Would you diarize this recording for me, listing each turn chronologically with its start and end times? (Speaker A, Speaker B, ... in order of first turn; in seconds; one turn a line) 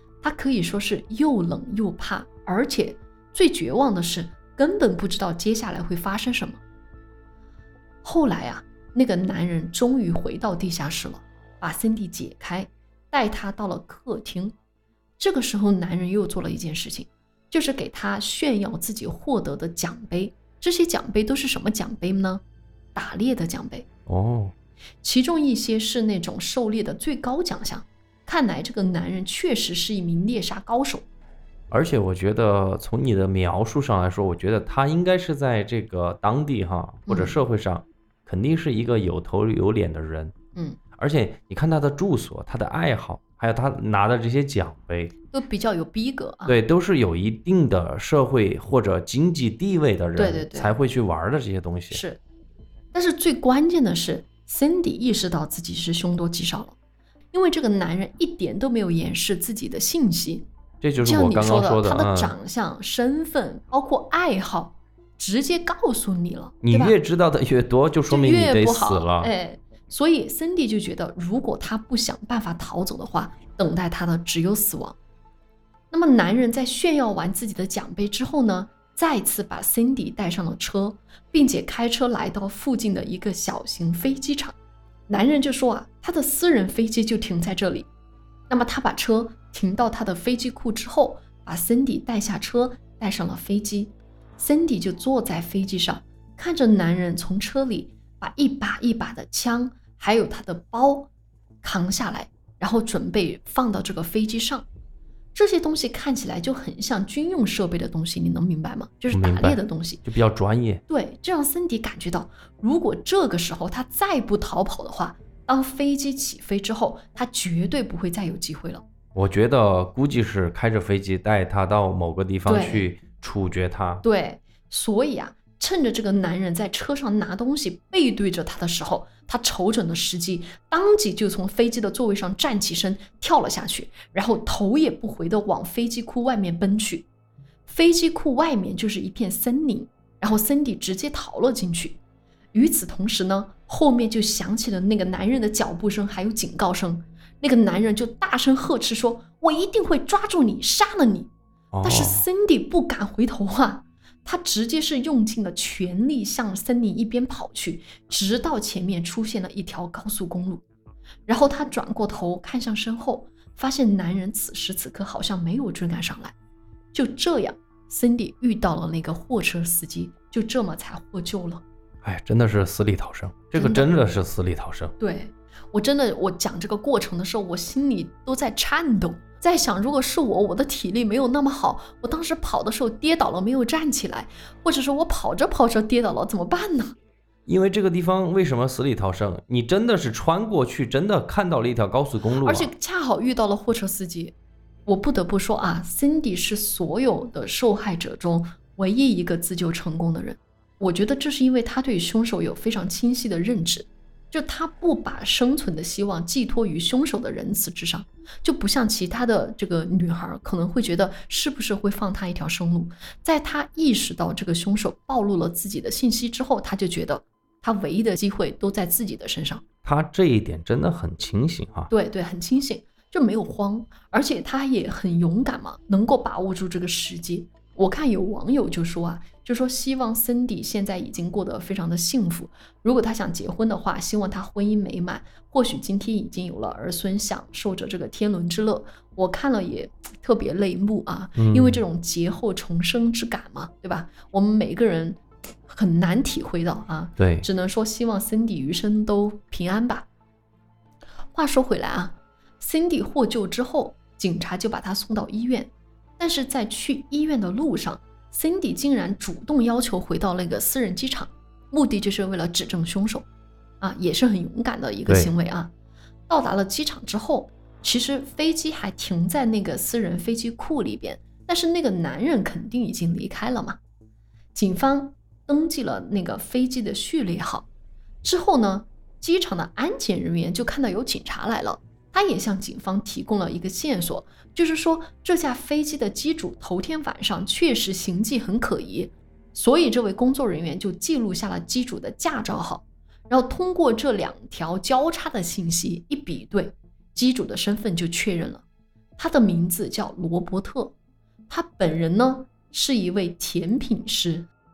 Speaker A: 0.2-6.6
Speaker A: 8.0-14.6
Speaker A: 15.2-22.4
Speaker A: 22.9-23.9
Speaker B: 24.1-24.5
Speaker A: 25.0-31.1
Speaker B: 31.7-40.3
Speaker A: 37.1-37.4
Speaker B: 41.0-45.1
Speaker A: 45.3-46.6
Speaker B: 46.5-52.0
Speaker A: 50.2-50.8
Speaker A: 51.9-52.2
Speaker A: 52.9-56.8
Speaker A: 57.3-60.5
Speaker B: 60.8-62.4
Speaker A: 61.0-67.0
Speaker B: 66.6-69.3
Speaker A: 68.1-75.0
Speaker A: 75.9-84.6
Speaker A: 85.1-87.9
Speaker A: 88.5-101.1
Speaker A: 101.6-104.7
Speaker A: 105.3-110.0
Speaker B: 109.1-110.8
Speaker A: 110.9-118.8
Speaker B: 119.2-124.0
Speaker A: 122.5-122.9
Speaker A: 124.0-137.1
Speaker A: 137.7-142.0
Speaker A: 142.5-151.3
Speaker B: 151.7-152.2
Speaker A: 151.8-160.6
Speaker A: 161.3-166.3
Speaker A: 166.9-171.6
Speaker B: 172.0-174.9
Speaker A: 173.6-173.9
Speaker A: 175.0-187.0
Speaker B: 187.5-192.7
Speaker A: 192.4-194.3
Speaker A: 194.9-219.6
Speaker B: 219.8-221.9
Speaker A: 221.9-250.1
Speaker B: 241.4-241.8
Speaker B: 247.2-247.5
Speaker A: 251.3-263.3
Speaker A: 263.8-265.7
Speaker A: 266.3-273.8
Speaker A: 274.6-277.7
Speaker A: 278.2-298.6
Speaker A: 299.2-300.9
Speaker A: 301.5-304.5